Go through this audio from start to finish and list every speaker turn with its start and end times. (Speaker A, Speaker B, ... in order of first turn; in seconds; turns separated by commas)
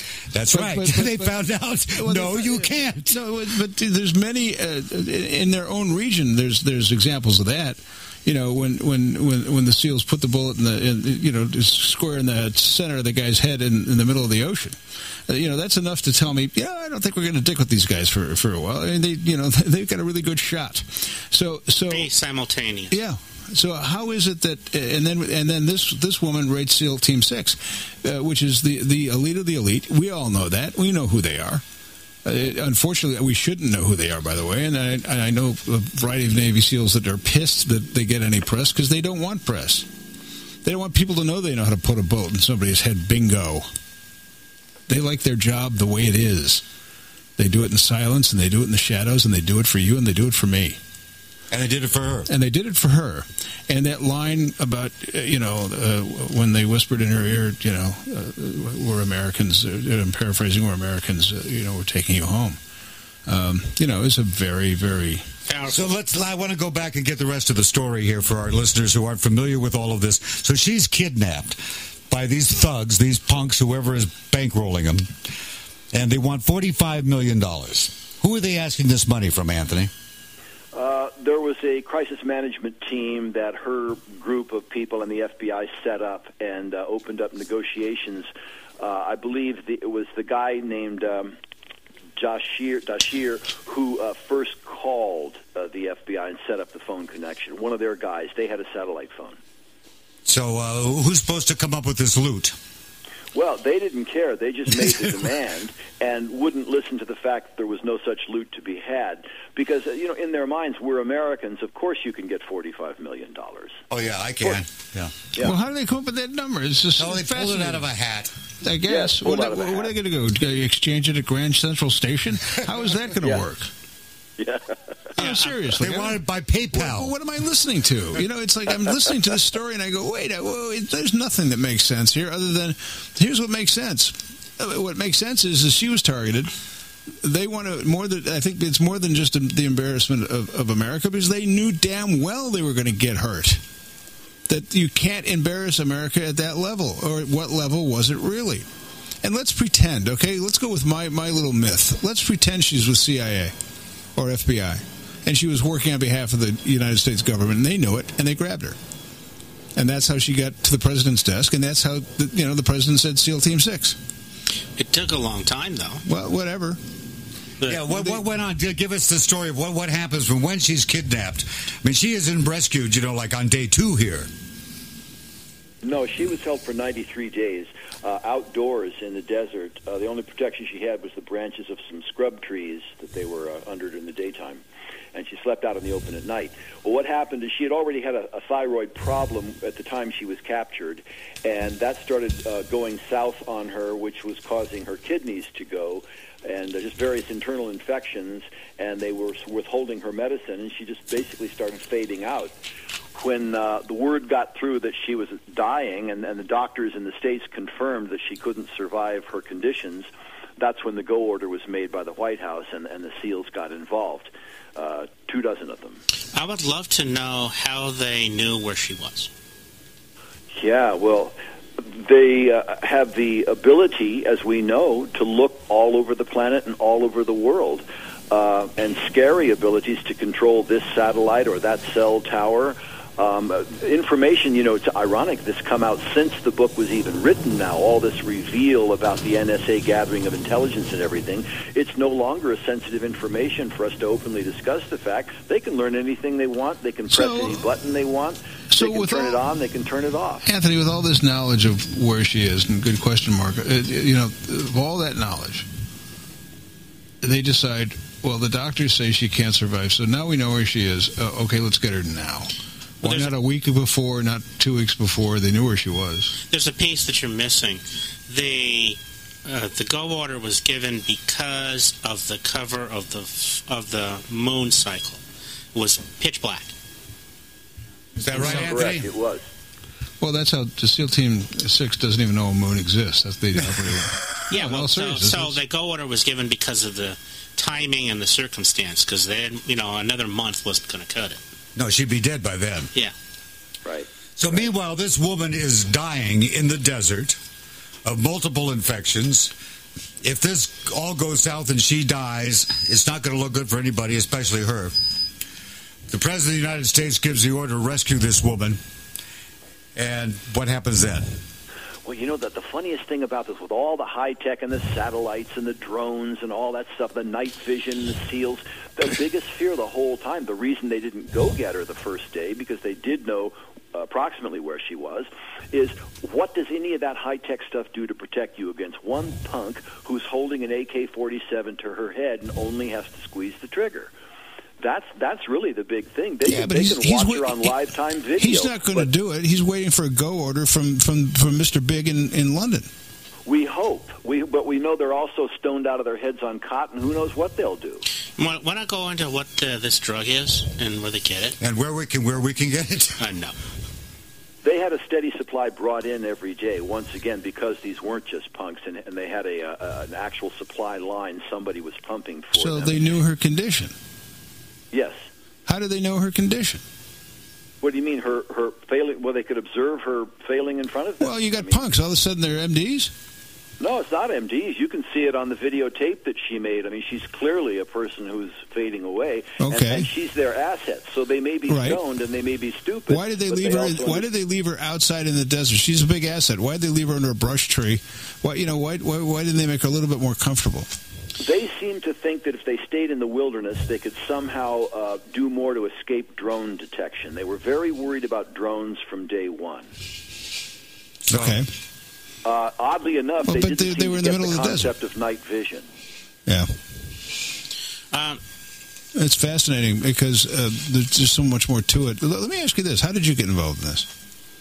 Speaker A: 0.3-3.2, Speaker B: 0.5-1.4, Speaker B: 1.9-22.1, Speaker C: 21.9-22.9, Speaker B: 22.9-31.6, Speaker B: 32.2-39.9, Speaker B: 40.6-43.7, Speaker B: 44.9-46.6, Speaker B: 47.4-50.8, Speaker A: 51.5-52.3, Speaker B: 52.3-62.6, Speaker B: 63.3-65.3, Speaker C: 65.5-65.9, Speaker A: 65.7-75.1, Speaker A: 75.9-79.9, Speaker D: 80.7-91.4, Speaker D: 92.2-99.4, Speaker A: 100.3-102.6, Speaker D: 103.3-113.8, Speaker A: 113.9-115.2, Speaker B: 115.4-117.8, Speaker A: 117.0-118.3, Speaker B: 118.6-123.7, Speaker D: 118.9-119.9, Speaker D: 124.4-124.8, Speaker B: 125.2-126.2, Speaker C: 125.2-125.8, Speaker A: 125.8-127.2, Speaker B: 126.7-136.5, Speaker B: 137.2-143.6, Speaker B: 144.5-148.7, Speaker B: 149.2-153.6, Speaker B: 154.2-158.8, Speaker B: 159.8-164.0, Speaker C: 164.8-166.0, Speaker B: 166.1-166.8, Speaker A: 167.7-174.3, Speaker B: 167.9-168.2, Speaker D: 175.8-184.6, Speaker D: 185.1-202.5, Speaker D: 203.2-216.0, Speaker C: 216.3-219.3, Speaker D: 220.5-250.5, Speaker B: 247.1-247.6, Speaker B: 248.7-249.4, Speaker B: 250.5-255.7, Speaker B: 257.2-266.4, Speaker C: 263.0-263.3, Speaker C: 266.5-275.2, Speaker C: 275.7-276.7, Speaker A: 278.2-279.1, Speaker D: 278.3-279.4, Speaker B: 280.2-285.6, Speaker C: 284.5-291.4, Speaker A: 291.8-292.9, Speaker A: 294.4-297.4, Speaker A: 298.1-299.5, Speaker A: 300.2-304.9, Speaker A: 306.1-308.8, Speaker A: 310.0-311.3, Speaker D: 312.1-334.1, Speaker D: 334.8-339.1, Speaker B: 336.4-337.8, Speaker B: 338.4-342.9, Speaker D: 343.5-348.0, Speaker C: 348.4-351.6, Speaker A: 351.6-353.2, Speaker C: 353.2-353.6, Speaker D: 354.6-363.1, Speaker B: 362.5-364.0, Speaker D: 364.9-365.2, Speaker B: 365.7-366.8, Speaker D: 367.8-371.8, Speaker B: 371.2-373.1, Speaker D: 373.8-384.3, Speaker B: 379.6-380.1, Speaker B: 381.7-382.0, Speaker B: 383.1-390.9, Speaker D: 391.4-399.9, Speaker A: 401.2-401.6, Speaker B: 401.3-401.7, Speaker D: 402.4-405.9, Speaker B: 403.5-404.9, Speaker B: 406.5-406.7, Speaker C: 408.1-408.4, Speaker B: 409.1-414.1